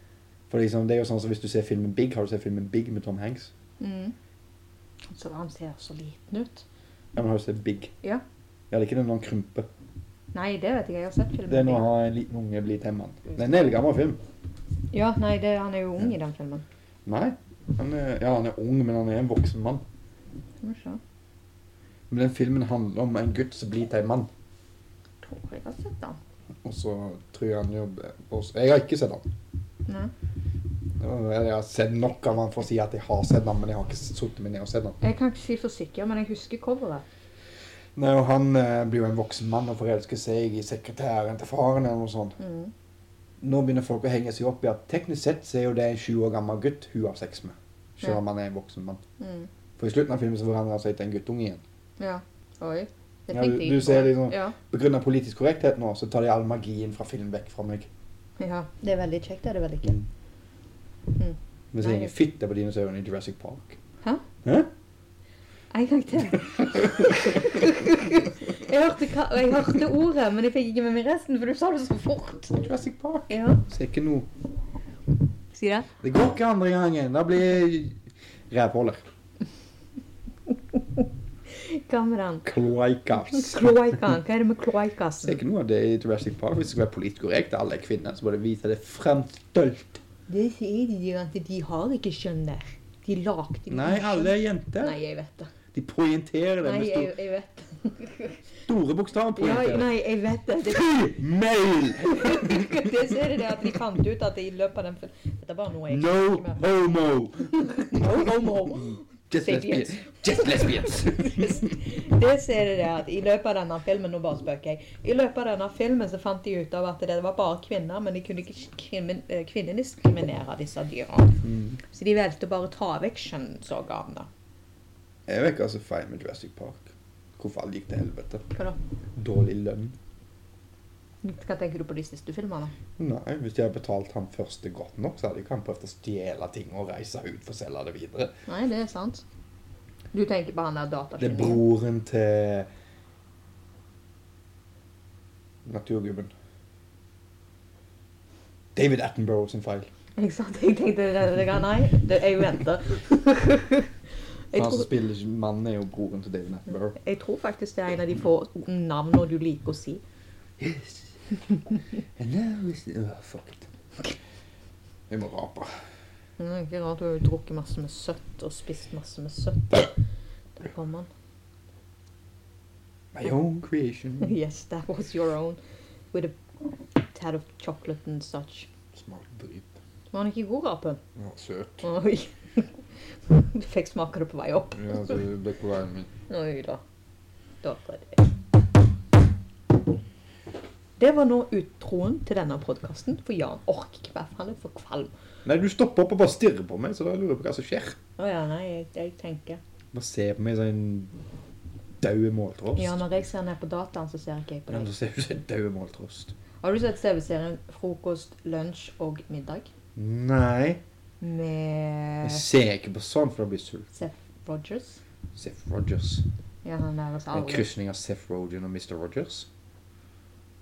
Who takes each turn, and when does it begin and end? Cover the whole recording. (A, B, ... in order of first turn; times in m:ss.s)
0:00.5-0:03.5 A
0:03.8-0:04.2 B
0:05.1-0:06.6 B
0:07.2-0:07.9 A
0:08.7-0:09.7 A
0:10.3-0:11.8 B
0:11.5-0:14.2 A
0:14.9-0:16.6 B
0:17.1-0:19.8 A
0:20.6-0:21.0 B
0:22.1-0:24.3 A
0:25.2-0:26.2 B
0:26.6-0:29.3 A
0:29.9-0:30.1 B
0:31.0-0:35.0 A
0:35.0-0:37.0 B
0:38.0-0:42.4 A
0:42.4-0:42.7 B
0:43.4-0:49.0 A
0:49.2-0:49.5 B
0:49.8-0:51.6 A
0:52.0-0:54.6 B
0:53.3-0:57.9 A
0:58.4-1:00.0 B
1:01.2-1:02.1 B
1:01.7-1:03.8 A
1:04.4-1:04.7 A
1:05.7-1:12.6 B
1:12.5-1:14.3 A
1:13.3-1:13.6 B
1:15.5-1:15.9 B
1:16.0-1:18.0 A
1:18.5-1:19.0 A
1:20.8-1:22.5 B
1:22.4-1:23.7 A
1:23.2-1:25.4 B
1:25.2-1:30.0 A
1:30.3-1:35.5 B
1:33.7-1:35.0 A
1:35.7-1:37.1 A
1:36.6-1:38.4 B
1:38.7-1:39.9 A
1:39.4-1:41.0 B
1:40.7-1:43.4 A
1:42.0-1:46.6 B
1:45.9-1:51.7 A
1:47.5-2:04.3 B
2:01.4-2:01.8 A
2:05.3-2:08.5 A
2:09.2-2:10.0 A
2:11.2-2:12.7 B
2:13.0-2:18.3 A
2:18.5-2:19.2 B
2:20.1-2:21.6 B
2:21.2-2:22.7 A
2:25.7-2:26.3 A
2:28.8-2:29.9 A
2:30.2-2:33.9 B
2:34.5-2:34.9 B
2:34.5-2:37.0 A
2:37.0-2:40.0 B
2:40.6-2:41.2 A
2:42.2-2:43.7 A
2:45.1-2:45.7 A
2:46.4-2:49.9 B
2:50.6-2:51.1 B
2:53.1-2:54.4 A
2:54.2-2:55.6 B
2:57.1-2:58.7 B
2:58.9-2:59.7 A
3:00.1-3:01.0 B
3:01.2-3:01.8 A
3:01.8-3:05.2 B
3:04.8-3:06.1 A
3:06.3-3:06.8 B
3:07.6-3:08.2 B
3:11.0-3:15.1 B
3:15.4-3:18.0 A
3:18.2-3:19.6 B
3:19.9-3:21.1 A
3:22.0-3:23.1 A
3:22.8-3:24.9 B
3:24.7-3:26.3 A
3:26.6-3:29.7 B
3:30.0-3:30.8 A
3:31.2-3:32.4 B
3:32.2-3:33.9 A
3:33.9-3:35.0 B
3:35.4-3:36.2 A
3:36.6-3:37.7 B
3:37.3-3:39.5 A